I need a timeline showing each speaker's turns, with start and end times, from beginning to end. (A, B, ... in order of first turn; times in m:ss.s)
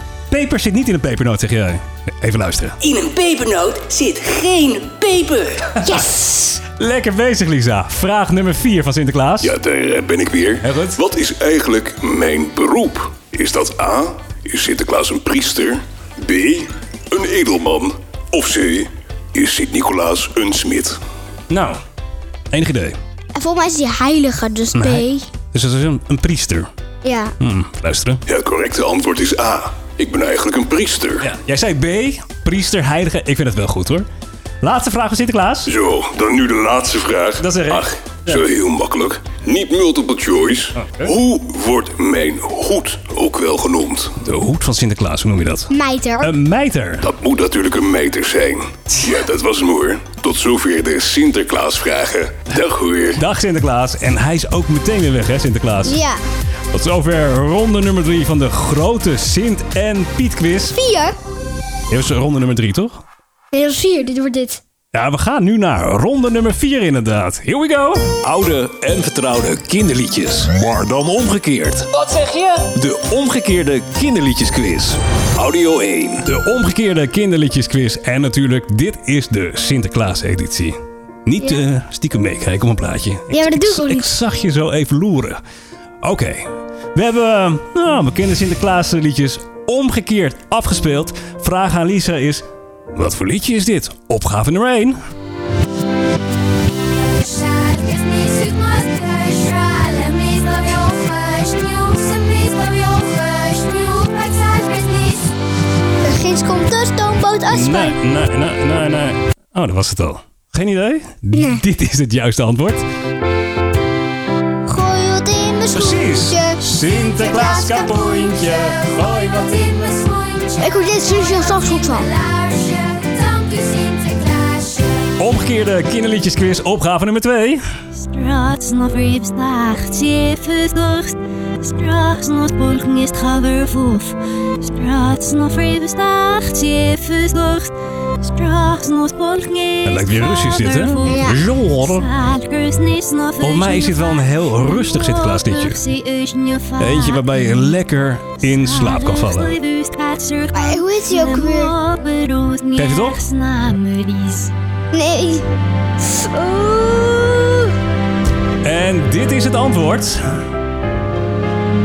0:00.3-0:02.8 A
0:02.8-0:05.7 B
0:05.8-0:06.6 C
0:06.7-0:09.5 A
0:09.4-0:21.0 D
0:10.6-0:11.0 A
0:21.5-0:21.8 A
0:22.5-0:23.0 A
0:23.4-0:25.3 C
0:24.7-0:26.7 A
0:27.0-0:27.3 C
0:27.4-0:28.2 A
0:28.3-0:31.4 D
0:31.2-0:34.1 A
0:34.6-0:35.7 A
0:35.7-0:44.3 D
0:37.4-0:38.4 A
0:40.8-0:41.1 A
0:44.2-0:45.7 A
0:45.7-0:46.3 C
0:46.2-0:47.0 A
0:47.0-0:53.3 D
0:53.2-0:56.0 A
0:55.8-0:56.2 C
0:56.7-1:00.8 A
1:00.7-1:01.2 C
1:01.9-1:03.0 A
1:03.5-1:04.6 C
1:04.9-1:08.1 A
1:08.2-1:11.9 E
1:12.0-1:12.6 B
1:12.7-1:16.3 E
1:16.3-1:25.4 A
1:23.3-1:24.1 C
1:26.0-1:35.0 A
1:37.2-1:45.1 F
1:46.0-1:48.0 C
1:47.5-1:52.8 A
1:51.3-1:51.6 C
1:54.7-1:57.5 C
1:55.7-1:59.6 A
1:59.6-2:00.8 F
2:00.6-2:02.1 C
2:02.1-2:04.6 F
2:05.2-2:07.6 A
2:08.0-2:27.7 F
2:19.8-2:22.0 A
2:21.0-2:21.4 C
2:23.4-2:25.8 A
2:26.8-2:29.6 A
2:28.4-2:34.5 F
2:30.5-2:31.7 C
2:32.8-2:33.2 A
2:34.9-2:35.4 C
2:36.0-2:37.7 C
2:38.6-2:40.2 A